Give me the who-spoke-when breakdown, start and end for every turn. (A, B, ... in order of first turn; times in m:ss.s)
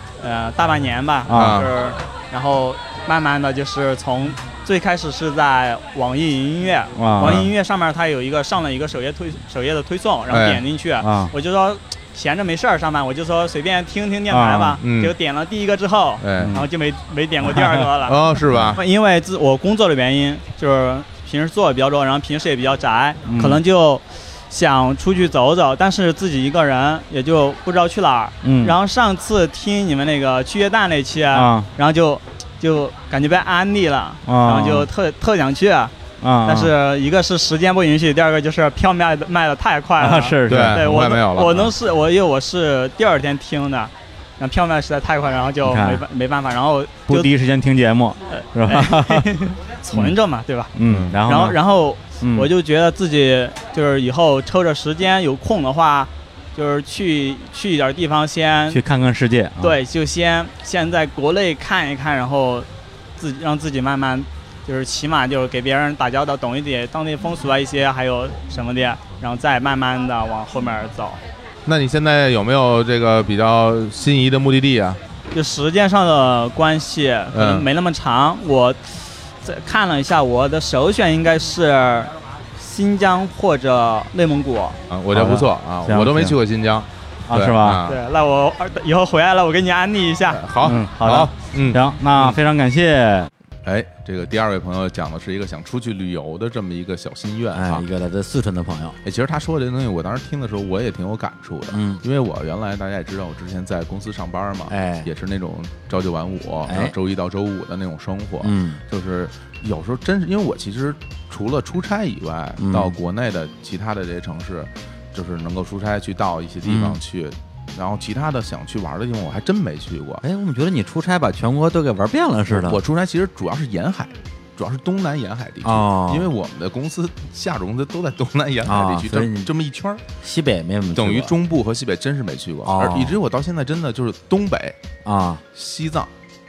0:00.2-0:47.3 A
0:01.3-0:01.6 B
0:01.3-0:01.7 C
0:07.0-0:07.4 B
0:07.2-0:07.5 C
0:10.3-0:10.6 C
0:11.0-0:11.3 B
0:14.3-0:14.8 B
0:14.8-0:15.1 C
0:16.2-0:16.6 C
0:18.0-0:18.8 C
0:23.3-0:23.6 B
0:28.4-0:28.8 B
0:31.3-0:31.7 B
0:34.3-0:34.9 B
0:36.2-0:36.7 B
0:40.0-0:40.8 B
0:40.5-0:41.7 C
0:45.6-0:46.0 B
0:47.1-0:49.3 B
0:48.3-0:50.7 A
0:50.8-0:51.6 B
0:50.9-0:51.2 C
0:51.2-0:58.8 A
0:52.2-0:52.5 B
0:58.7-0:59.8 B
0:59.6-1:02.7 A
1:03.2-1:11.2 A
1:11.7-1:15.0 C
1:15.3-1:24.8 A
1:17.3-1:17.7 C
1:24.9-1:28.0 C
1:25.1-1:26.4 B
1:27.3-1:27.8 B
1:27.8-1:30.5 A
1:30.3-1:32.4 C
1:30.6-1:33.3 B
1:33.6-1:37.8 C
1:37.5-1:39.0 D
1:39.0-2:00.2 C
1:41.7-1:42.0 D
1:44.7-1:45.1 D
1:46.7-1:46.9 D
1:48.4-1:48.8 D
1:52.6-1:53.0 D
1:56.6-1:57.0 D
2:00.2-2:02.8 D
2:02.5-2:10.0 C
2:05.6-2:06.3 D
2:08.6-2:09.5 D
2:10.2-2:11.4 D
2:11.0-2:14.8 C
2:12.6-2:13.2 D
2:15.0-2:15.4 D
2:15.5-2:16.1 C